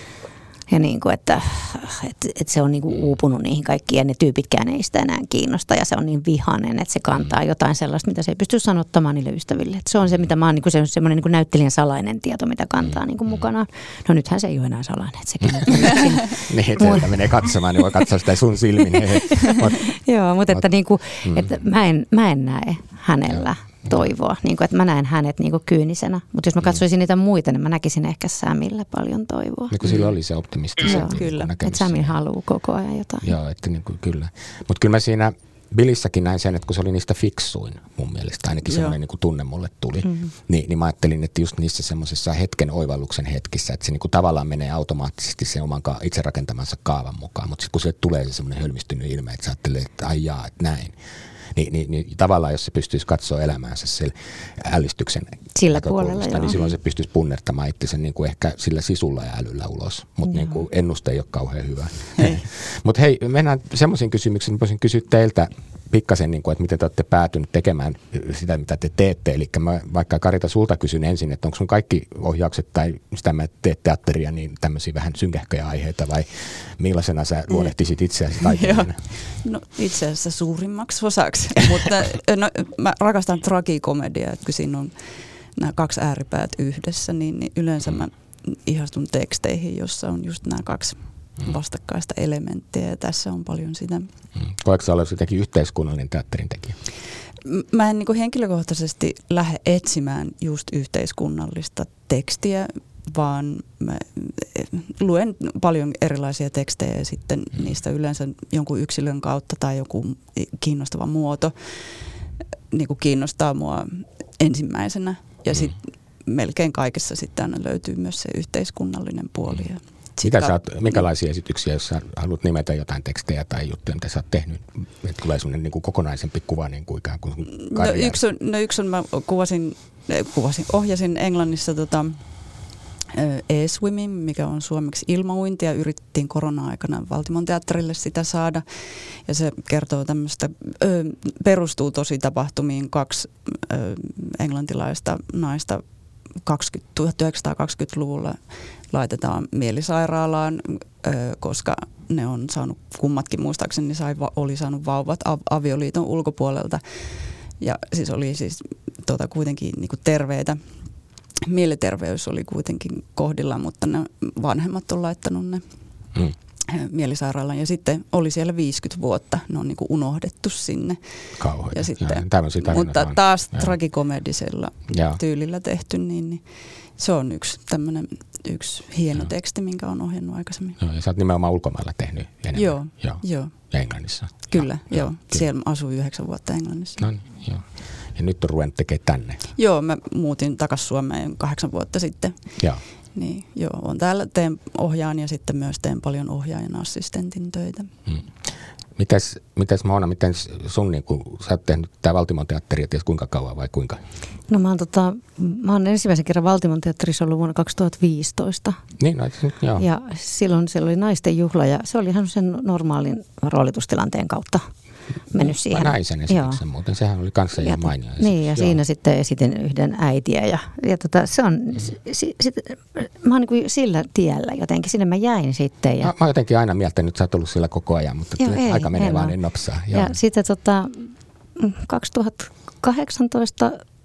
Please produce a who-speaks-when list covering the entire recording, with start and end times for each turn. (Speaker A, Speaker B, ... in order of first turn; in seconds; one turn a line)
Speaker A: 0.7-17.2
Speaker B: 16.4-19.9
Speaker A: 19.1-29.8
Speaker B: 21.2-21.5
Speaker B: 23.3-24.1
Speaker B: 29.7-32.2
Speaker C: 29.8-30.1
Speaker C: 30.8-31.5
Speaker A: 30.9-33.3
Speaker B: 33.2-51.0
Speaker C: 38.7-39.0
Speaker B: 51.5-79.0
Speaker A: 55.5-56.6
Speaker A: 60.3-60.6
Speaker C: 62.2-62.4
Speaker C: 78.4-85.0
Speaker C: 85.5-94.1
Speaker B: 94.4-96.8
Speaker C: 97.5-112.0
Speaker C: 112.7-121.0
Speaker B: 120.2-128.2
Speaker C: 127.6-145.8
Speaker C: 146.3-160.6
Speaker C: 161.5-165.6
Speaker C: 166.7-171.0
Speaker B: 171.4-173.7
Speaker C: 171.7-180.8
Speaker B: 174.9-175.2
Speaker B: 180.8-185.5
Speaker C: 182.5-183.7
Speaker C: 184.5-187.1
Speaker B: 187.0-189.5
Speaker C: 189.6-197.9
Speaker B: 199.0-204.0
Speaker A: 204.5-208.8
Speaker B: 209.0-209.8
Speaker A: 209.8-214.7
Speaker A: 215.3-216.6
Speaker B: 215.4-218.8
Speaker A: 217.6-226.1
Speaker B: 226.0-230.1
Speaker A: 228.4-229.3
Speaker A: 229.9-233.8